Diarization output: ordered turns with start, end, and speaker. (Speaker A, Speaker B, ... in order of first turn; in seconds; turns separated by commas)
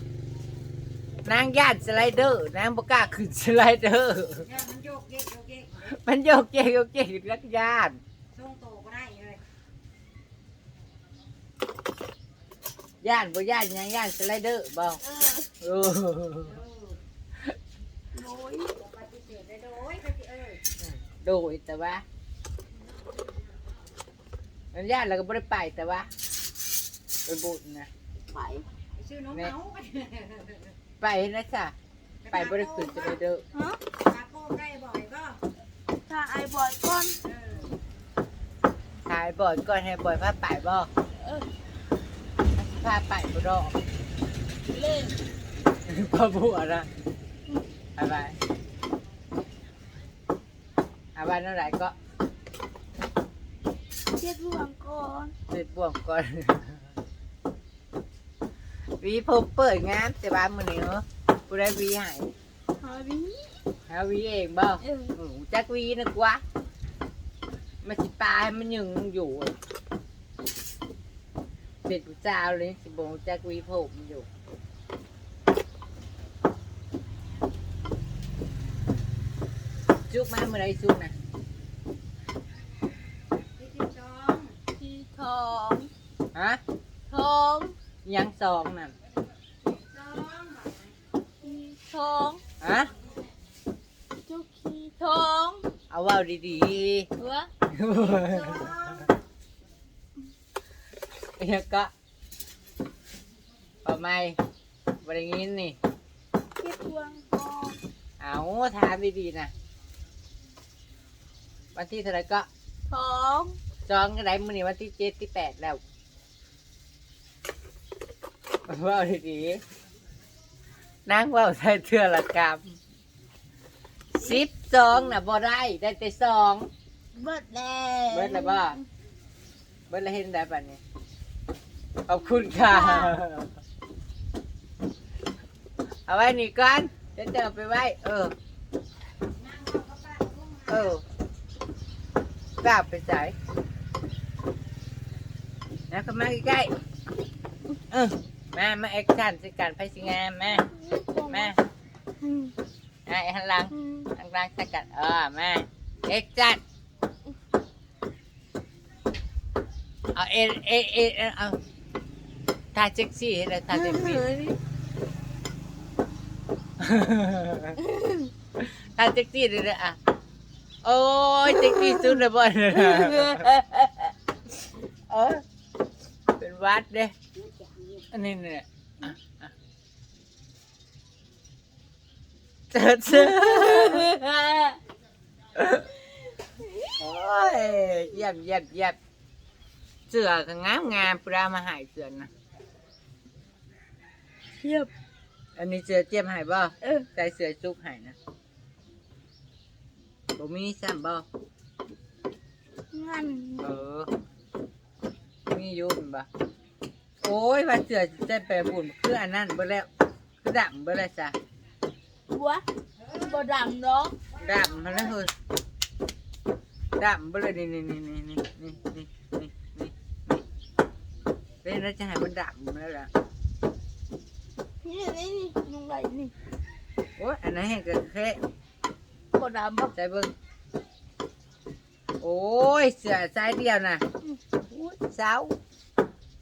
Speaker A: 1.2-4.5, Speaker B: 4.4-5.9, Speaker A: 5.8-8.0, Speaker B: 8.3-9.4, Speaker A: 13.0-15.0, Speaker C: 15.0-15.5, Speaker A: 15.6-16.6, Speaker B: 16.4-17.0, Speaker C: 18.1-18.8, Speaker B: 18.8-20.6, Speaker A: 20.8-22.0, Speaker A: 24.7-26.1, Speaker A: 27.2-27.9, Speaker C: 28.3-28.6, Speaker B: 28.9-30.7, Speaker A: 31.0-31.7, Speaker B: 32.2-33.2, Speaker A: 32.3-33.4, Speaker C: 33.5-33.8, Speaker B: 33.9-35.4, Speaker C: 36.1-37.2, Speaker B: 37.2-37.8, Speaker A: 39.1-40.9, Speaker C: 41.2-41.5, Speaker A: 42.5-43.8, Speaker C: 44.7-45.2, Speaker A: 45.8-46.9, Speaker A: 48.0-48.4, Speaker A: 51.1-51.9, Speaker C: 54.1-55.3, Speaker A: 55.5-56.9, Speaker A: 59.0-62.3, Speaker C: 62.8-63.5, Speaker A: 63.9-66.4, Speaker C: 64.8-65.1, Speaker A: 67.8-69.5, Speaker A: 71.8-74.3, Speaker A: 80.1-81.1, Speaker B: 83.5-84.6, Speaker C: 84.8-85.9, Speaker A: 86.3-86.6, Speaker C: 87.1-87.7, Speaker A: 88.0-88.9, Speaker B: 89.6-91.0, Speaker C: 91.4-92.4, Speaker A: 92.6-92.9, Speaker C: 94.3-95.7, Speaker A: 95.9-97.1, Speaker C: 97.2-97.5, Speaker A: 97.7-98.9, Speaker B: 98.1-99.1, Speaker A: 101.4-101.9, Speaker A: 103.8-104.4, Speaker A: 105.0-105.8, Speaker C: 106.6-107.8, Speaker A: 108.2-109.5, Speaker A: 111.7-112.5, Speaker C: 112.9-113.6, Speaker A: 113.9-115.8, Speaker A: 118.7-119.6, Speaker A: 121.0-122.8, Speaker A: 124.1-126.7, Speaker C: 127.1-128.8, Speaker A: 128.1-128.8, Speaker A: 129.9-130.8, Speaker A: 132.1-133.6, Speaker C: 132.6-133.2, Speaker A: 136.1-138.3, Speaker B: 139.3-140.9, Speaker A: 140.7-141.0, Speaker A: 142.6-143.3, Speaker A: 145.9-146.7, Speaker A: 147.9-150.7, Speaker C: 150.6-151.5, Speaker A: 151.3-151.6, Speaker C: 152.2-152.5, Speaker A: 153.1-156.6, Speaker C: 153.7-154.1, Speaker A: 160.1-161.6, Speaker A: 162.7-164.3, Speaker C: 163.7-164.6, Speaker A: 166.8-167.8, Speaker C: 167.8-168.3, Speaker A: 168.6-170.0, Speaker A: 170.8-173.5, Speaker C: 171.5-172.2, Speaker C: 172.7-174.1, Speaker A: 175.1-175.4, Speaker A: 176.4-177.1, Speaker B: 177.4-178.0, Speaker A: 178.1-179.5, Speaker A: 182.7-184.1, Speaker C: 183.1-184.8, Speaker C: 186.4-186.9, Speaker A: 186.9-189.0, Speaker A: 190.1-192.3, Speaker C: 194.6-194.9, Speaker A: 195.6-198.2, Speaker C: 196.8-197.1, Speaker A: 200.3-201.2, Speaker C: 202.9-203.6, Speaker A: 203.6-204.1, Speaker A: 205.5-206.3, Speaker A: 207.2-209.9, Speaker A: 210.4-211.3, Speaker C: 212.3-214.2, Speaker B: 213.0-213.3, Speaker B: 214.3-215.1, Speaker A: 214.4-215.3, Speaker A: 217.0-220.4, Speaker A: 221.6-223.1, Speaker C: 224.8-226.3, Speaker A: 227.2-228.4, Speaker C: 229.3-229.9, Speaker A: 229.9-230.3, Speaker A: 232.2-234.0, Speaker A: 234.7-235.6